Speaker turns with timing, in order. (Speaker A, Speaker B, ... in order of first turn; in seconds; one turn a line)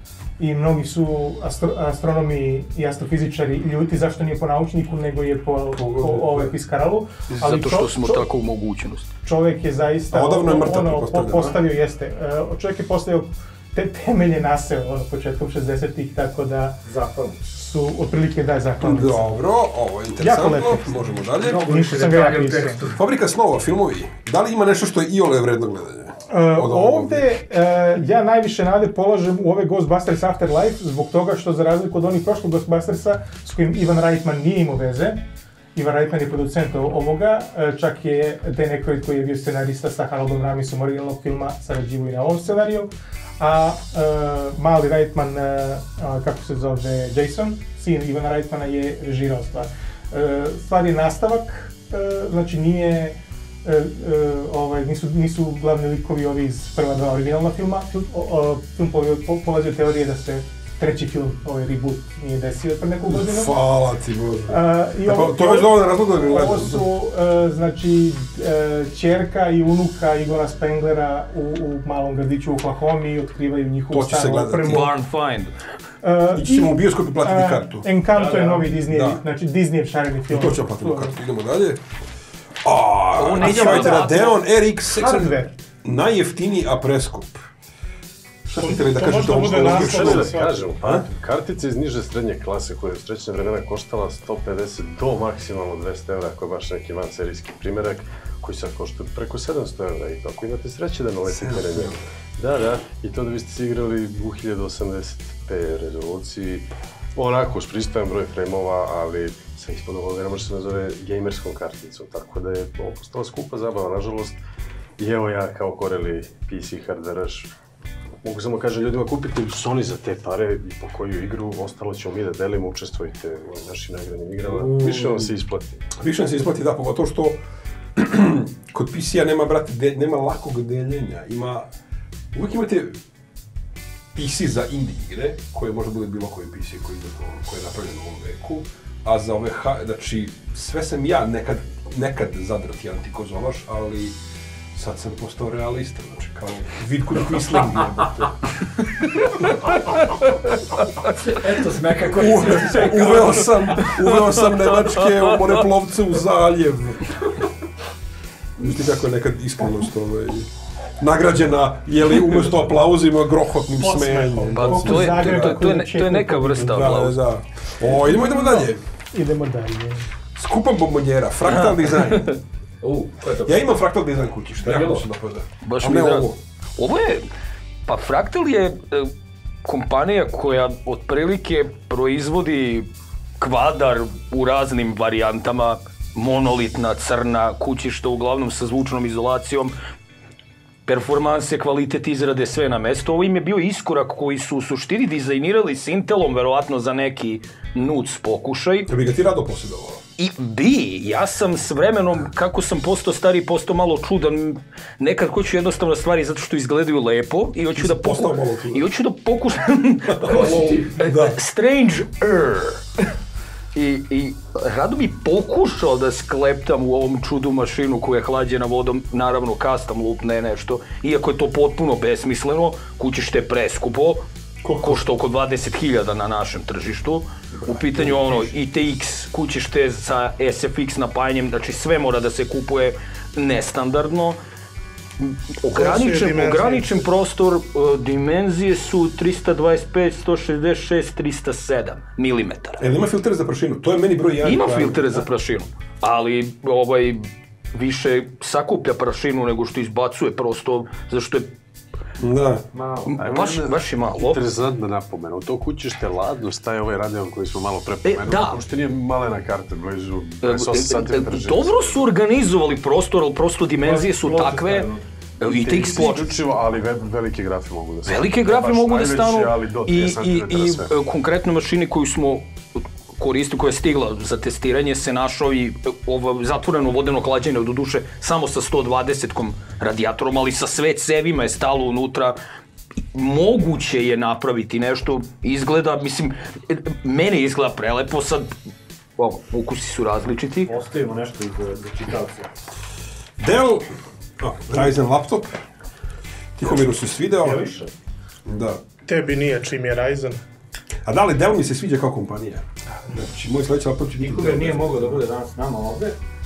Speaker A: 0.4-8.3
Speaker B: 5.7-6.5
Speaker C: 7.4-9.1
Speaker A: 9.2-16.8
Speaker B: 10.1-11.6
Speaker D: 16.8-17.4
Speaker A: 17.5-19.4
Speaker B: 18.8-21.7
Speaker A: 20.2-22.8
Speaker D: 21.4-23.0
Speaker B: 22.9-27.3
Speaker A: 26.3-35.2
Speaker A: 35.8-63.5
Speaker B: 63.1-66.9
Speaker A: 64.5-74.9
Speaker B: 73.9-74.9
Speaker C: 74.7-75.5
Speaker A: 76.0-81.2
Speaker B: 76.3-77.9
Speaker D: 78.1-78.8
Speaker B: 78.8-79.2
Speaker B: 80.3-81.8
Speaker B: 82.6-87.5
Speaker C: 83.2-84.4
Speaker A: 83.4-84.0
Speaker A: 84.9-85.5
Speaker B: 88.5-91.1
Speaker E: 88.6-90.8
Speaker F: 89.4-114.4
Speaker B: 101.3-102.0
Speaker F: 115.0-117.5
Speaker F: 118.2-125.9
Speaker B: 124.4-125.3
Speaker B: 126.0-127.4
Speaker B: 128.0-131.7
Speaker B: 132.3-133.0
Speaker B: 134.1-144.2
Speaker B: 144.7-148.5
Speaker D: 151.2-153.5
Speaker B: 152.1-157.4
Speaker C: 152.6-155.7
Speaker B: 158.6-165.7
Speaker E: 163.8-164.7
Speaker C: 164.5-167.2
Speaker A: 164.6-167.0
Speaker B: 166.6-168.8
Speaker A: 167.9-170.1
Speaker B: 170.3-172.3
Speaker D: 172.8-173.7
Speaker B: 173.4-176.4
Speaker D: 174.6-175.1
Speaker C: 175.6-177.3
Speaker C: 177.9-179.1
Speaker C: 179.7-182.9
Speaker C: 183.4-189.8
Speaker C: 190.9-198.9
Speaker B: 198.9-200.0
Speaker C: 200.2-213.1
Speaker B: 207.8-208.9
Speaker B: 210.1-211.4
Speaker D: 210.3-210.9
Speaker C: 213.7-234.4
Speaker B: 224.6-225.0
Speaker B: 227.6-228.5
Speaker C: 235.2-242.8
Speaker E: 235.7-237.0
Speaker B: 242.8-245.3
Speaker C: 244.4-251.5
Speaker B: 252.2-252.7
Speaker D: 252.7-253.2
Speaker C: 253.1-254.4
Speaker F: 253.2-262.1
Speaker C: 258.1-258.6
Speaker C: 260.4-264.9
Speaker D: 263.8-265.1
Speaker C: 265.4-266.4
Speaker F: 265.4-270.9
Speaker C: 268.1-282.4
Speaker C: 283.1-288.5
Speaker C: 289.2-290.7
Speaker D: 290.7-292.5
Speaker B: 293.4-295.6
Speaker B: 296.6-297.6
Speaker D: 296.7-297.9
Speaker B: 298.5-298.8
Speaker E: 299.1-300.4
Speaker B: 301.1-305.2
Speaker D: 304.2-306.2